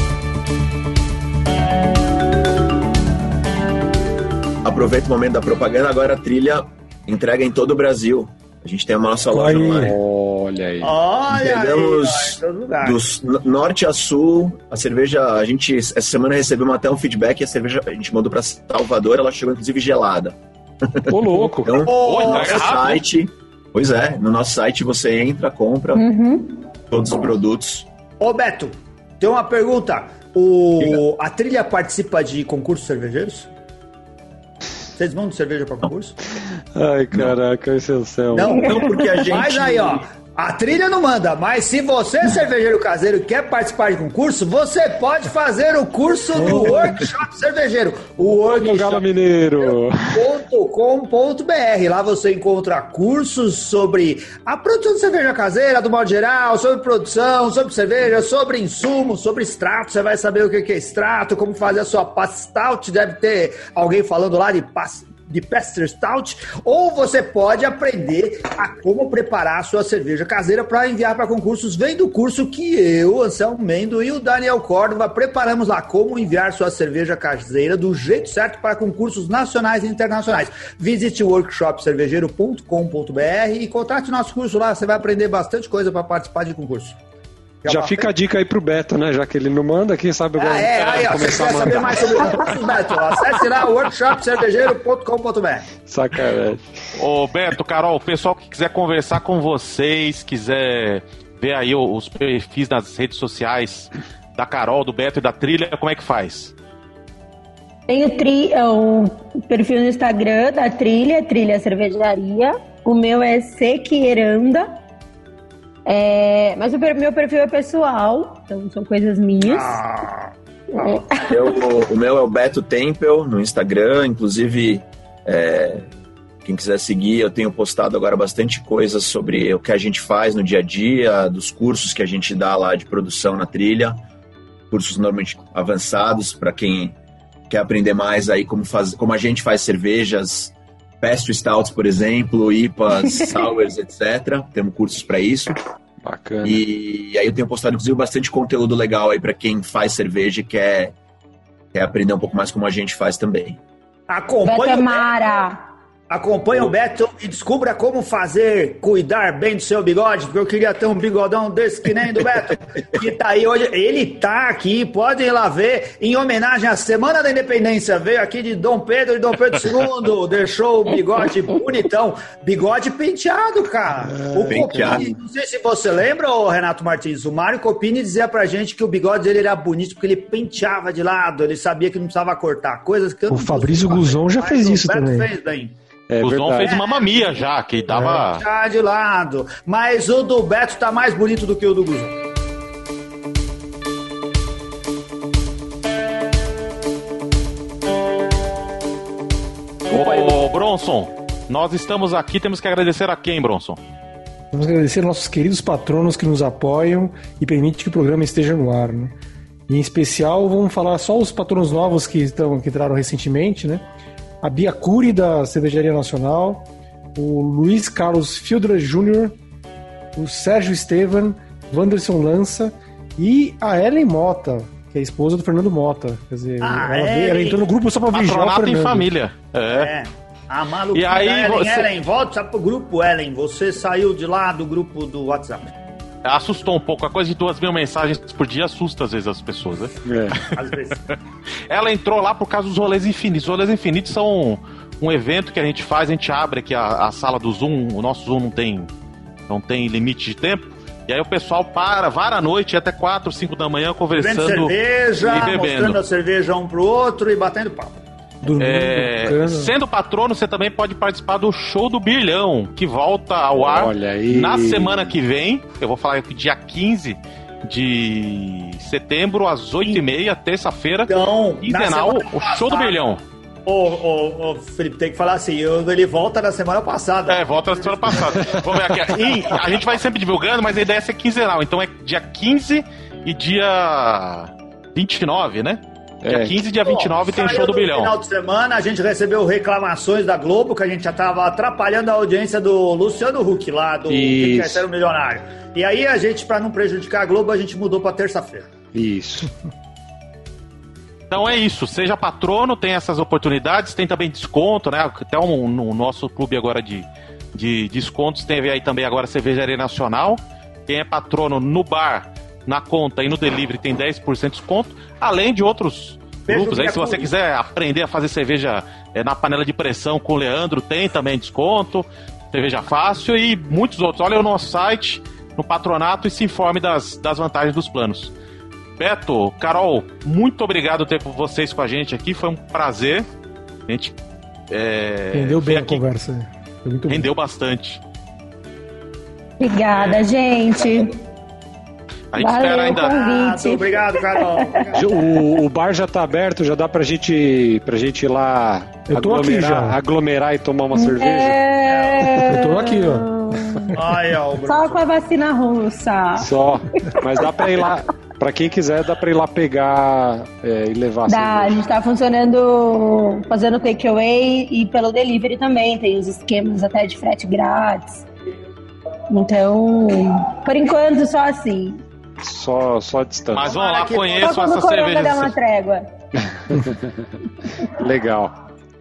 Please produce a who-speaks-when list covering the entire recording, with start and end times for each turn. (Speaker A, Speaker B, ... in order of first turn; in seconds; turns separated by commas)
Speaker A: 4.6-10.0, Speaker B: 9.3-9.9, Speaker C: 9.7-10.9, Speaker D: 10.8-13.0, Speaker A: 11.3-26.1, Speaker C: 21.1-21.9, Speaker D: 21.9-22.9, Speaker E: 22.0-23.0, Speaker F: 25.9-26.7, Speaker A: 26.9-27.9, Speaker D: 28.2-33.5, Speaker D: 35.0-36.2, Speaker C: 36.7-38.6, Speaker A: 37.1-37.4, Speaker D: 38.3-49.1, Speaker A: 38.6-40.0, Speaker C: 46.5-46.7, Speaker C: 48.5-50.3, Speaker D: 49.6-87.0, Speaker D: 87.6-88.1, Speaker C: 87.7-92.8, Speaker D: 90.4-95.7, Speaker C: 95.8-96.9, Speaker E: 97.0-106.5, Speaker F: 107.9-114.7, Speaker F: 115.9-119.8, Speaker D: 119.4-121.0, Speaker F: 120.7-121.5, Speaker A: 121.2-125.9, Speaker A: 126.4-134.0, Speaker A: 134.7-137.0, Speaker A: 137.5-145.6, Speaker C: 146.0-146.6, Speaker A: 146.4-150.9, Speaker A: 151.7-153.6, Speaker D: 154.1-155.2, Speaker F: 154.4-155.6, Speaker D: 156.1-185.7, Speaker C: 174.2-175.0, Speaker A: 174.5-175.1, Speaker B: 183.3-185.3, Speaker C: 186.1-186.7, Speaker E: 186.2-188.4, Speaker D: 186.6-192.2, Speaker E: 199.9-203.8, Speaker D: 199.9-200.4, Speaker B: 204.5-209.2, Speaker B: 209.7-213.8, Speaker B: 214.4-219.4, Speaker B: 220.2-229.1, Speaker D: 226.6-227.7, Speaker E: 228.1-229.9, Speaker D: 229.7-235.7, Speaker E: 230.9-231.9, Speaker E: 236.2-240.5, Speaker C: 240.1-240.4, Speaker D: 240.5-241.0, Speaker E: 241.7-248.9, Speaker E: 249.5-256.0, Speaker D: 254.2-258.0, Speaker B: 258.4-259.7, Speaker E: 258.6-273.2, Speaker C: 263.5-265.2, Speaker D: 271.1-273.0, Speaker D: 273.7-278.6, Speaker E: 277.3-288.1, Speaker D: 279.1-279.7, Speaker C: 286.2-286.6, Speaker D: 286.8-298.7, Speaker C: 294.1-294.9, Speaker C: 298.9-299.5, Speaker E: 301.3-328.3, Speaker D: 316.5-317.3, Speaker E: 329.0-333.3, Speaker E: 333.9-334.1, Speaker E: 334.7-336.0, Speaker B: 335.3-337.3, Speaker E: 337.1-338.0, Speaker F: 339.6-341.1, Speaker E: 342.3-343.1, Speaker F: 342.4-344.7, Speaker D: 342.9-345.1, Speaker C: 344.9-351.6, Speaker B: 349.1-349.9, Speaker F: 350.9-354.0, Speaker B: 352.4-353.3, Speaker D: 353.9-355.1, Speaker F: 354.6-357.6, Speaker C: 356.4-361.8, Speaker F: 361.3-368.3, Speaker F: 369.3-372.0, Speaker C: 372.4-373.7, Speaker E: 373.5-375.5, Speaker D: 373.6-374.6, Speaker F: 374.4-376.1, Speaker C: 376.5-377.2, Speaker C: 377.9-378.6